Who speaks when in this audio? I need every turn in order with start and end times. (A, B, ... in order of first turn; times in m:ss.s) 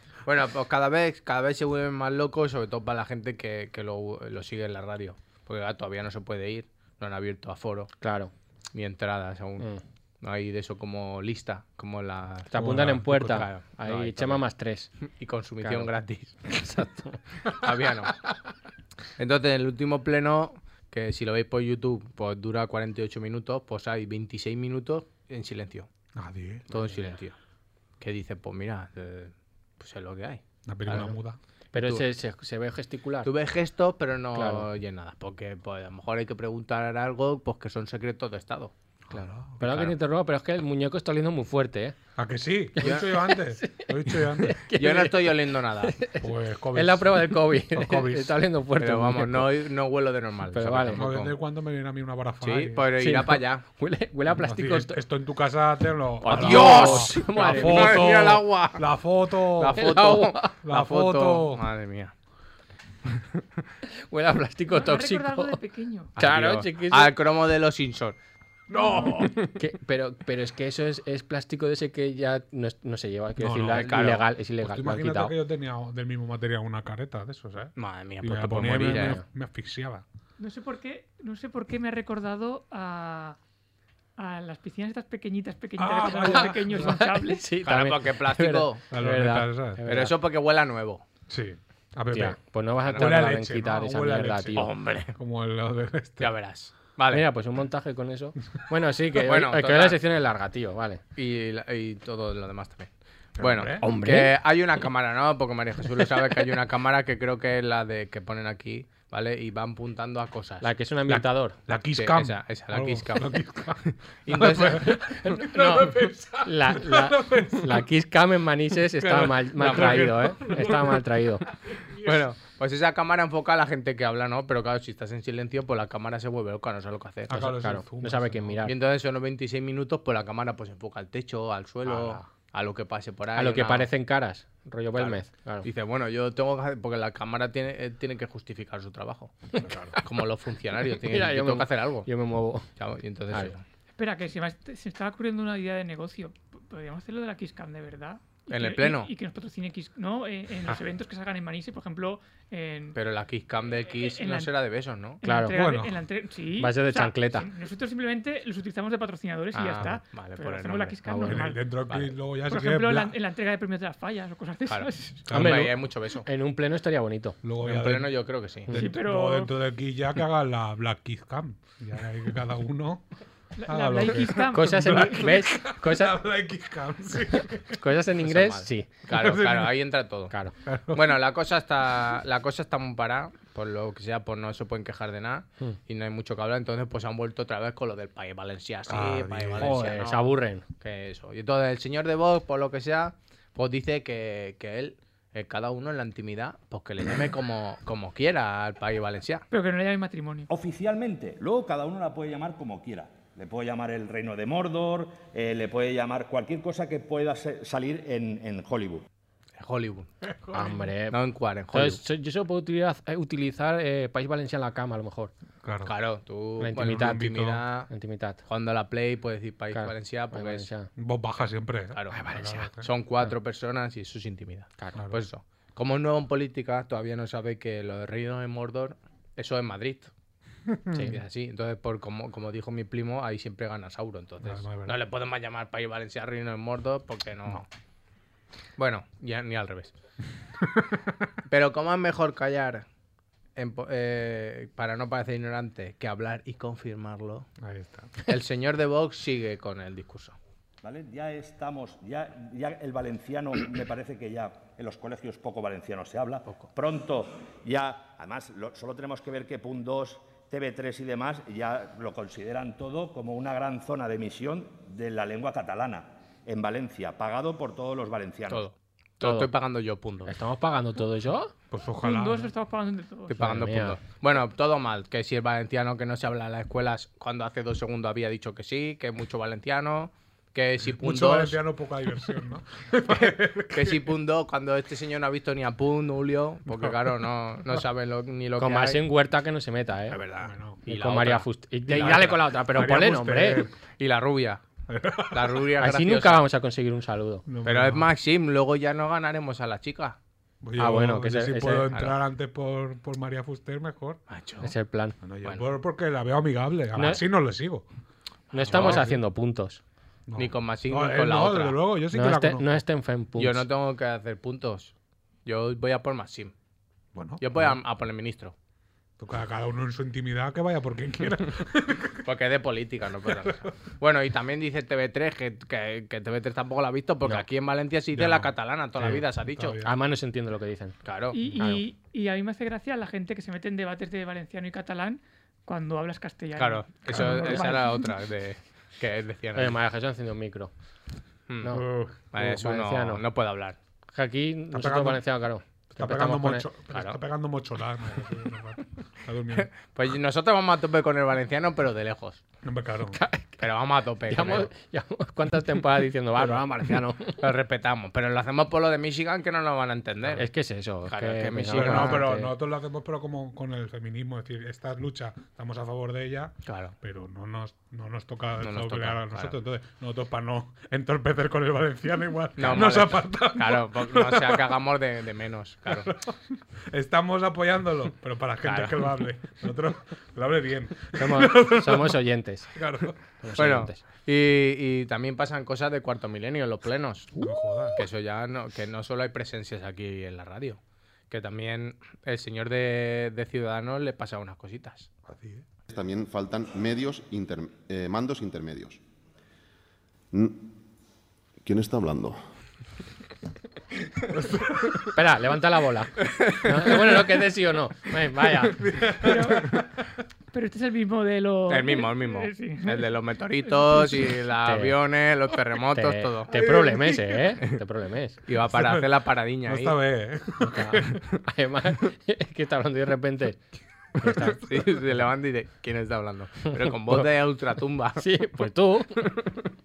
0:00.2-0:07.9 A
0:08.0-0:08.3 B
0:08.7-0:09.7 A
0:10.2-0:12.5 A
0:12.5-0:14.9 B
0:12.5-0:13.5 C
0:13.2-0:14.5 A
0:15.0-0:16.4 A
0:15.6-0:15.9 B
0:16.5-0:17.2 B
0:17.5-0:18.2 A
0:19.2-0:25.9 A
0:26.1-0:26.7 C
0:26.7-0:27.4 A
0:26.7-0:27.1 B
0:28.0-0:31.2 A
0:30.7-0:31.4 C
0:31.7-0:32.0 A
0:31.7-0:33.3 B
0:33.2-0:38.7 A
0:34.3-0:34.7 B
0:39.1-0:39.8 C
0:39.6-0:42.0 B
0:39.6-0:39.9 A
0:42.2-0:44.6 C
0:42.8-0:43.1 A
0:42.9-0:49.5 B
0:44.8-0:46.0 A
0:46.2-0:48.4 C
0:48.8-0:51.4 A
0:50.5-0:51.0 B
0:50.9-0:52.9 C
0:52.4-0:53.6 A
0:53.0-0:55.0 B
0:54.4-1:00.0 C
0:56.2-0:58.0 B
0:56.2-0:58.9 A
0:59.6-1:02.1 A
0:59.8-1:00.5 B
1:00.6-1:01.6 C
1:03.2-1:03.4 A
1:04.1-1:05.6 B
1:04.7-1:06.1 D
1:06.2-1:07.2 B
1:06.2-1:08.2 A
1:08.7-1:09.4 C
1:08.8-1:09.1 D
1:09.0-1:09.5 A
1:09.5-1:15.4 B
1:13.4-1:20.0 C
1:13.7-1:14.3 A
1:17.8-1:19.2 A
1:19.0-1:19.2 B
1:20.4-1:23.4 D
1:24.2-1:27.4 D
1:25.8-1:27.0 C
1:26.1-1:30.2 B
1:27.6-1:28.8 A
1:28.9-1:29.8 C
1:29.9-1:31.0 A
1:31.3-1:36.4 C
1:32.1-1:34.7 B
1:32.9-1:33.2 A
1:34.5-1:35.1 A
1:36.2-1:37.2 A
1:37.1-1:41.0 B
1:39.2-1:40.0 A
1:41.2-1:50.7 A
1:43.4-1:43.9 C
1:43.8-1:44.3 B
1:50.6-1:51.6 B
1:51.1-1:57.9 C
1:51.9-1:55.2 A
1:54.9-2:01.4 B
1:59.0-2:02.3 C
1:59.6-2:00.7 A
2:02.0-2:07.5 A
2:07.3-2:08.7 C
2:07.3-2:08.7 B
2:08.6-2:13.9 A
2:11.8-2:12.3 C
2:13.4-2:15.6 B
2:15.0-2:19.4 A
2:19.6-2:20.0 C
2:20.0-2:22.1 A
2:21.0-2:22.7 B
2:22.7-2:23.6 A
2:24.0-2:33.0 D
2:28.5-2:29.1 A
2:32.9-2:35.2 A
2:34.0-2:34.5 D
2:35.2-2:41.8 D
2:35.2-2:35.6 B
2:35.5-2:36.0 C
2:36.6-2:37.5 B
2:39.5-2:41.0 A
2:41.0-2:41.4 B
2:41.2-2:43.2 C
2:41.9-2:42.1 A
2:42.5-2:45.2 D
2:44.7-2:46.3 A
2:45.2-2:45.7 C
2:45.3-2:47.4 B
2:47.4-2:53.1 C
2:47.6-2:48.8 A
2:48.8-2:49.5 D
2:53.6-2:55.2 D
2:53.7-2:57.8 C
2:54.5-2:56.2 B
2:57.8-2:58.9 B
2:58.2-3:00.3 A
2:59.1-2:59.8 C
3:00.3-3:00.5 B
3:00.6-3:01.2 C
3:00.9-3:19.5 A
3:08.9-3:09.9 C
3:09.6-3:10.6 B
3:19.5-3:20.5 D
3:20.5-3:29.0 E
3:29.6-3:30.1 A
3:30.2-3:30.9 C
3:30.5-3:31.2 B
3:31.1-3:32.0 A
3:31.7-3:35.3 B
3:35.6-3:35.9 C
3:35.8-3:37.9 A
3:36.6-3:38.4 B
3:36.7-3:37.6 C
3:38.5-3:40.7 A
3:39.7-3:40.9 B
3:41.0-3:42.9 C
3:41.9-3:42.2 A
3:42.1-3:42.7 B
3:42.8-3:50.1 A
3:45.0-3:45.2 C
3:50.7-3:51.1 C
3:51.0-3:57.7 A
3:54.4-3:55.0 C
3:58.8-3:59.9 A
4:00.6-4:01.1 C
4:01.5-4:02.8 A
4:03.6-4:07.5 A
4:07.6-4:08.1 C
4:08.2-4:10.4 A
4:10.8-4:28.7 E
4:28.5-4:30.4 A
4:29.2-4:29.5 B
4:30.2-4:31.5 B
4:31.7-4:32.5 C
4:32.0-4:33.4 D
4:33.3-4:41.6 A
4:33.4-4:34.0 B
4:40.8-4:44.2 C
4:43.1-4:49.0 A
4:46.7-4:47.8 C
4:48.6-4:50.2 B
4:50.1-4:52.4 A
4:50.4-4:50.8 C
4:50.8-4:53.7 B
4:51.9-4:53.8 C
4:54.0-4:54.6 A
4:54.9-4:55.7 C
4:55.3-4:56.4 A
4:55.8-4:57.4 B
4:57.5-4:58.1 C
4:57.6-5:00.2 A
5:00.6-5:04.2 C
5:00.8-5:01.9 B
5:04.3-5:04.7 A
5:04.6-5:05.2 B
5:05.2-5:07.8 C
5:06.9-5:07.2 B
5:08.5-5:09.8 B
5:08.6-5:09.1 A
5:08.7-5:09.2 C
5:10.3-5:12.8 C
5:10.4-5:11.8 A
5:12.1-5:13.6 B
5:13.4-5:14.9 A
5:15.4-5:16.5 A
5:17.1-5:17.8 C
5:17.4-5:18.5 A
5:19.2-5:22.3 C
5:22.2-5:29.8 A
5:23.2-5:23.7 C
5:28.1-5:30.0 C
5:29.8-5:31.0 B
5:31.0-5:31.4 A
5:31.3-5:38.1 D
5:31.6-5:31.8 B
5:36.6-5:39.8 A
5:37.1-5:37.7 C
5:39.5-5:40.7 B
5:41.5-5:43.8 A
5:41.6-5:43.2 B
5:41.7-5:42.2 C
5:44.1-5:46.7 B
5:44.7-5:45.2 C
5:45.9-5:49.7 C
5:46.9-5:47.2 A
5:49.6-5:52.4 A
5:52.6-5:53.2 C
5:53.1-5:53.6 B
5:53.6-5:54.7 A
5:54.3-5:57.4 B
5:57.4-6:00.5 A
6:00.4-6:02.5 B
6:01.1-6:02.2 A
6:01.7-6:14.8 C
6:06.6-6:06.9 A
6:08.6-6:09.5 A
6:12.6-6:16.1 A
6:15.8-6:16.4 C
6:16.9-6:22.2 C
6:18.6-6:19.1 A
6:21.2-6:22.7 B
6:22.7-6:23.2 C
6:23.4-6:24.0 B
6:23.6-6:27.4 A
6:27.4-6:28.0 C
6:28.0-6:35.1 A
6:35.2-6:35.6 C
6:35.9-6:39.0 F
6:40.3-6:40.7 F
6:41.6-6:42.4 F
6:44.3-6:45.1 C
6:45.1-6:48.8 B
6:46.3-6:47.3 A
6:48.6-6:49.2 A
6:48.8-6:49.9 C
6:49.2-6:49.8 D
6:50.5-6:53.1 D
6:51.7-6:56.7 A
6:54.6-6:55.0 B
6:55.9-6:58.4 B
6:56.5-6:57.2 C
6:58.5-7:00.0 A
6:58.7-7:01.2 C
7:00.6-7:03.6 B
7:04.2-7:04.6 B
7:04.5-7:08.3 A
7:08.2-7:09.3 B
7:09.2-7:09.6 A